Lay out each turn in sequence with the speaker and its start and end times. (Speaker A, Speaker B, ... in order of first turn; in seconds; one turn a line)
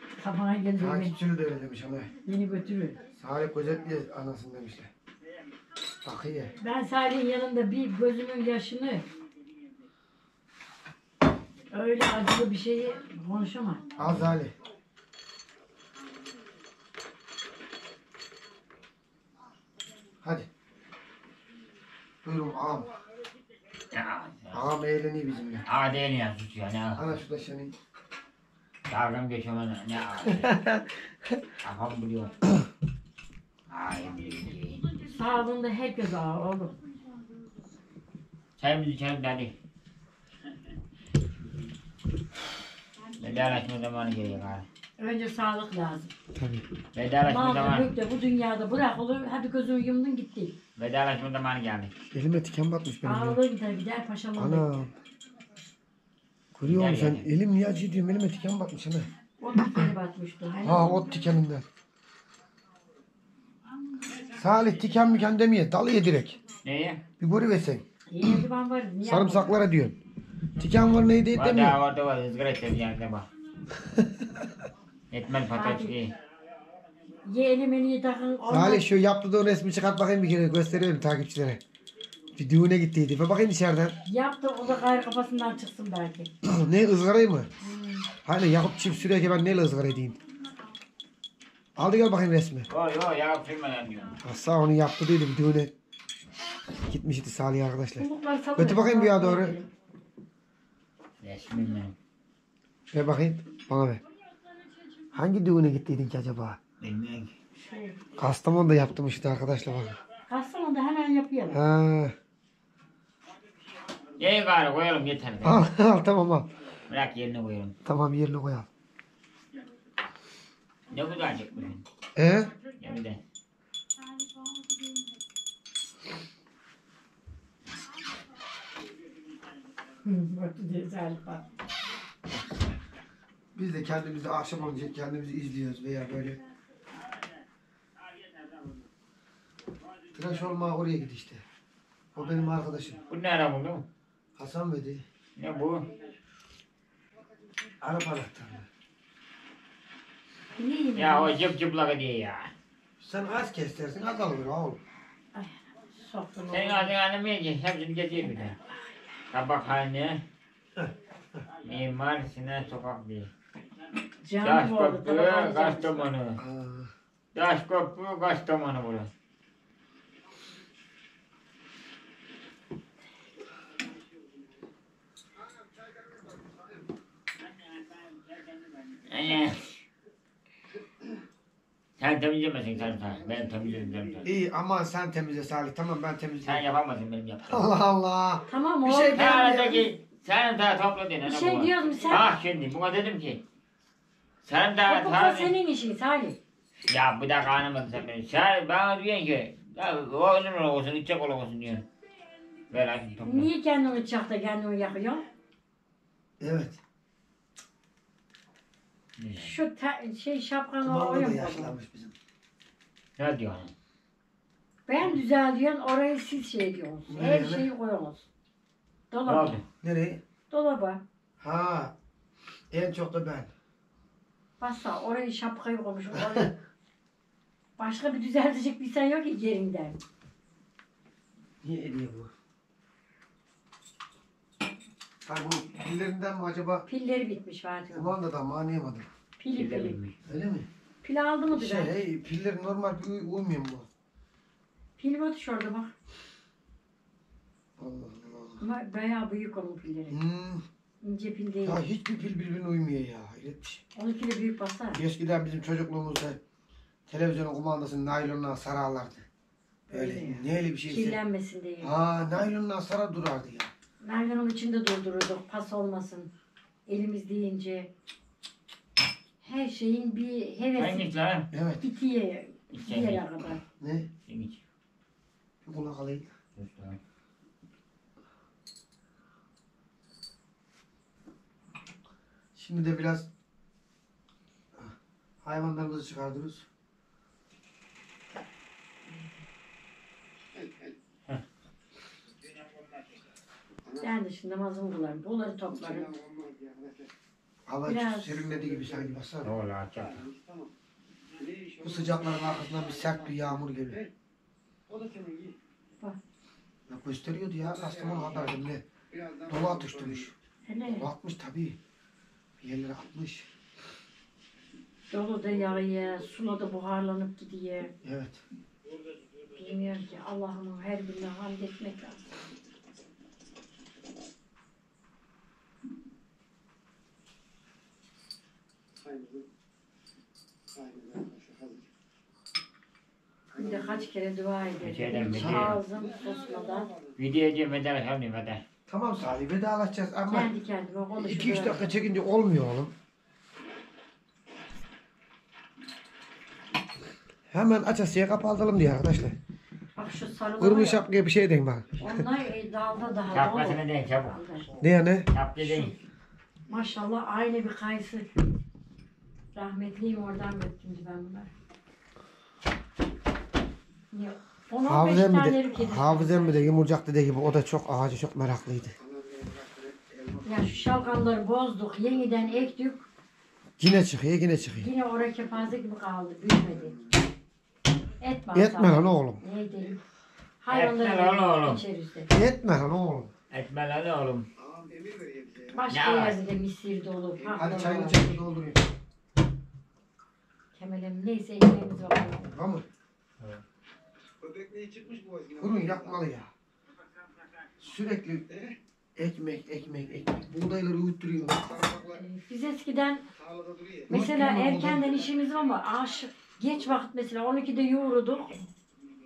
Speaker A: 0.2-1.2
Speaker B: 0.8-2.1
Speaker A: 2.2-3.0
Speaker B: 3.2-4.9
Speaker B: 6.0-6.5
Speaker A: 6.6-9.1
Speaker A: 11.7-13.8
Speaker B: 14.0-14.5
Speaker C: 14.0-14.3
Speaker B: 20.2-20.5
Speaker B: 22.2-22.9
Speaker C: 23.9-24.6
Speaker B: 24.5-25.7
Speaker C: 25.7-27.2
Speaker B: 27.0-27.7
Speaker C: 28.9-30.6
Speaker B: 30.3-31.4
Speaker C: 31.6-32.4
Speaker C: 33.7-34.8
Speaker A: 35.0-36.8
Speaker C: 38.6-39.5
Speaker C: 43.2-44.7
Speaker A: 45.0-46.1
Speaker B: 46.3-46.7
Speaker C: 46.9-47.9
Speaker A: 47.3-50.6
Speaker C: 50.8-51.9
Speaker B: 52.1-53.4
Speaker A: 53.0-54.7
Speaker B: 54.4-54.9
Speaker B: 56.5-59.9
Speaker C: 56.7-57.3
Speaker A: 59.4-61.1
Speaker B: 60.6-61.7
Speaker B: 64.2-66.4
Speaker C: 66.6-67.0
Speaker B: 67.2-67.8
Speaker A: 68.1-69.6
Speaker B: 69.0-70.0
Speaker B: 70.6-71.8
Speaker C: 71.3-73.3
Speaker B: 73.7-74.5
Speaker C: 75.1-76.1
Speaker A: 75.5-76.0
Speaker A: 77.2-78.8
Speaker B: 78.5-81.6
Speaker B: 82.4-84.0
Speaker A: 84.1-86.3
Speaker B: 86.4-87.5
Speaker A: 87.6-88.1
Speaker B: 88.2-90.2
Speaker B: 91.8-92.7
Speaker C: 92.7-94.2
Speaker B: 94.2-95.7
Speaker B: 96.8-99.6
Speaker A: 98.0-99.7
Speaker C: 101.2-102.0
Speaker B: 102.9-104.0
Speaker B: 105.1-106.6
Speaker C: 106.8-107.3
Speaker A: 107.6-108.0
Speaker B: 108.2-110.0
Speaker A: 110.3-111.6
Speaker B: 111.5-112.2
Speaker C: 114.2-115.7
Speaker B: 115.4-116.5
Speaker C: 116.9-117.8
Speaker B: 117.8-118.7
Speaker C: 120.9-121.8
Speaker B: 122.2-122.5
Speaker C: 122.8-123.2
Speaker A: 130.1-131.4
Speaker B: 133.5-136.4
Speaker B: 140.1-141.4
Speaker B: 142.2-143.0
Speaker C: 143.1-143.9
Speaker B: 144.4-145.1
Speaker C: 145.4-145.9
Speaker B: 147.8-148.7
Speaker A: 150.6-151.4
Speaker C: 151.0-152.5
Speaker B: 153.0-154.8
Speaker A: 155.3-156.9
Speaker C: 156.5-158.6
Speaker C: 159.3-160.2
Speaker C: 161.6-163.3
Speaker A: 164.2-166.1
Speaker C: 164.4-166.4
Speaker B: 166.4-166.9
Speaker C: 167.3-169.1
Speaker C: 179.0-179.8
Speaker C: 182.0-184.3
Speaker B: 184.2-186.6
Speaker C: 186.4-187.7
Speaker B: 187.5-189.9
Speaker A: 188.5-189.7
Speaker C: 189.2-193.4
Speaker A: 191.2-192.3
Speaker C: 194.4-195.5
Speaker A: 194.9-196.4
Speaker C: 196.9-201.8
Speaker C: 202.7-203.5
Speaker A: 203.2-205.3
Speaker B: 206.4-206.8
Speaker C: 209.2-209.5
Speaker A: 209.3-211.8
Speaker B: 210.8-212.1
Speaker C: 213.2-213.7
Speaker A: 214.9-218.3
Speaker B: 217.1-217.7
Speaker A: 219.1-219.6
Speaker C: 219.3-219.6
Speaker B: 219.8-220.2
Speaker A: 220.5-221.0
Speaker B: 221.4-221.9
Speaker B: 222.7-223.5
Speaker A: 224.6-226.6
Speaker B: 226.1-226.5
Speaker A: 227.8-230.0
Speaker B: 231.6-232.3
Speaker B: 235.2-236.8
Speaker A: 236.9-238.1
Speaker B: 237.9-239.1
Speaker A: 239.4-240.0
Speaker C: 239.6-240.2
Speaker B: 240.3-240.7
Speaker A: 241.0-241.9
Speaker B: 241.5-243.9
Speaker A: 245.0-245.9
Speaker B: 247.8-248.6
Speaker A: 248.6-250.2
Speaker B: 250.1-250.6
Speaker A: 251.0-251.8
Speaker B: 251.6-253.8
Speaker A: 253.9-255.0
Speaker B: 254.9-256.4
Speaker B: 257.1-259.3
Speaker A: 259.9-261.9
Speaker B: 259.9-261.2
Speaker B: 261.8-263.7
Speaker A: 264.0-266.3
Speaker A: 266.9-267.9
Speaker A: 269.4-271.1
Speaker C: 270.8-271.5
Speaker B: 271.5-271.8
Speaker A: 271.8-273.6
Speaker C: 272.7-273.2
Speaker B: 273.8-274.1
Speaker C: 274.3-274.6
Speaker B: 275.6-276.3
Speaker C: 276.6-277.0
Speaker B: 282.6-283.3
Speaker B: 284.8-286.7
Speaker D: 290.6-290.9
Speaker A: 294.0-296.1
Speaker D: 295.7-297.1
Speaker B: 297.7-299.5
Speaker A: 297.9-298.4
Speaker D: 298.4-299.2
Speaker C: 299.4-300.3
Speaker D: 299.9-300.7
Speaker D: 301.4-304.1
Speaker B: 301.8-304.0
Speaker D: 304.9-305.6
Speaker B: 306.9-308.8
Speaker D: 307.9-308.5
Speaker D: 309.1-310.3
Speaker B: 309.5-310.3
Speaker A: 310.6-311.1
Speaker B: 310.9-311.8
Speaker B: 312.6-313.5
Speaker A: 315.1-317.9
Speaker B: 318.0-318.4
Speaker A: 319.6-322.3
Speaker D: 329.0-329.5
Speaker D: 330.7-331.9
Speaker D: 333.5-334.1
Speaker A: 333.6-336.9
Speaker C: 334.8-335.8
Speaker B: 335.1-335.8
Speaker D: 335.8-337.1
Speaker C: 337.2-338.6
Speaker B: 338.9-340.5
Speaker A: 340.3-341.8
Speaker B: 341.2-342.9
Speaker B: 347.5-349.4
Speaker A: 350.0-351.0
Speaker B: 350.6-352.2
Speaker A: 352.0-354.7
Speaker C: 353.3-354.4
Speaker B: 354.8-355.3
Speaker C: 355.3-355.9
Speaker A: 355.6-355.9
Speaker A: 356.7-358.3
Speaker A: 359.5-361.5
Speaker A: 364.1-366.6
Speaker B: 364.9-369.0
Speaker D: 369.0-370.7
Speaker A: 370.4-373.1
Speaker B: 373.8-374.9
Speaker A: 374.8-377.0
Speaker A: 378.2-380.0
Speaker B: 378.5-379.4
Speaker A: 380.6-382.3
Speaker C: 380.7-381.8
Speaker B: 382.3-383.3
Speaker C: 383.5-384.5
Speaker D: 384.6-385.9
Speaker A: 385.7-388.3
Speaker C: 385.9-386.4
Speaker D: 387.4-388.4
Speaker B: 387.6-388.9
Speaker A: 390.8-392.5
Speaker B: 392.4-392.9
Speaker D: 394.4-396.2
Speaker B: 395.6-396.5
Speaker B: 397.8-398.5
Speaker D: 398.5-398.8
Speaker B: 399.2-401.9
Speaker D: 401.6-402.2
Speaker A: 402.2-403.3
Speaker D: 403.4-404.2
Speaker B: 404.1-405.2
Speaker A: 404.1-408.7